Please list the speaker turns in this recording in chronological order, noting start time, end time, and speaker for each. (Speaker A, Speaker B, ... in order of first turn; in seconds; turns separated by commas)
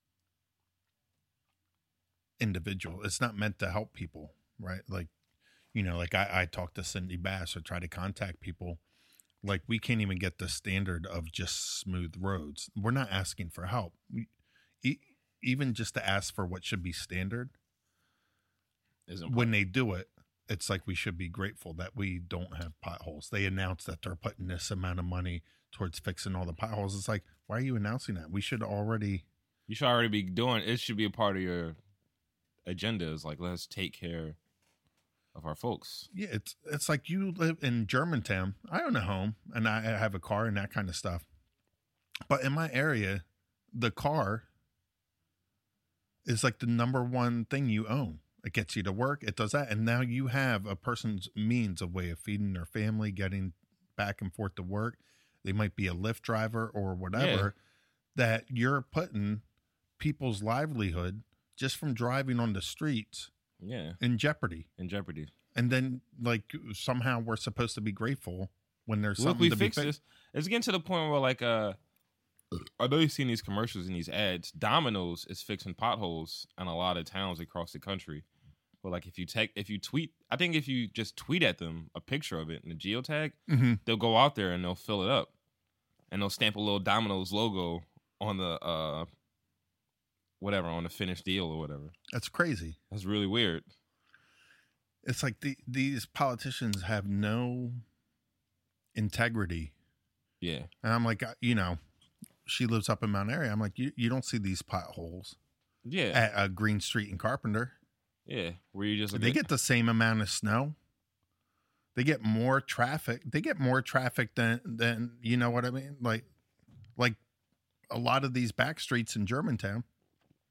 Speaker A: 2.4-5.1, Speaker A: 5.7-8.8, Speaker A: 9.4-14.3, Speaker A: 14.8-17.5, Speaker B: 19.1-19.5, Speaker A: 19.3-29.2, Speaker B: 29.7-31.8, Speaker B: 32.6-34.4, Speaker B: 35.3-36.1, Speaker A: 36.1-41.2, Speaker A: 42.3-44.5, Speaker A: 46.2-57.5, Speaker B: 57.1-57.5, Speaker A: 58.1-59.4, Speaker A: 60.0-63.3, Speaker B: 63.6-64.0, Speaker A: 64.0-64.7, Speaker B: 64.8-65.3, Speaker A: 65.5-69.9, Speaker B: 69.2-71.8, Speaker B: 72.8-78.2, Speaker B: 78.8-85.3, Speaker A: 83.5-83.8, Speaker B: 86.1-89.1, Speaker B: 90.4-91.9, Speaker A: 92.1-92.8, Speaker B: 92.9-93.7, Speaker A: 95.0-97.8, Speaker A: 98.9-99.7, Speaker B: 100.4-100.7, Speaker A: 100.8-101.8, Speaker A: 102.5-105.3, Speaker B: 105.8-106.2, Speaker A: 106.1-107.7, Speaker B: 108.2-109.4, Speaker A: 109.1-110.8, Speaker A: 111.9-116.2, Speaker A: 117.9-119.8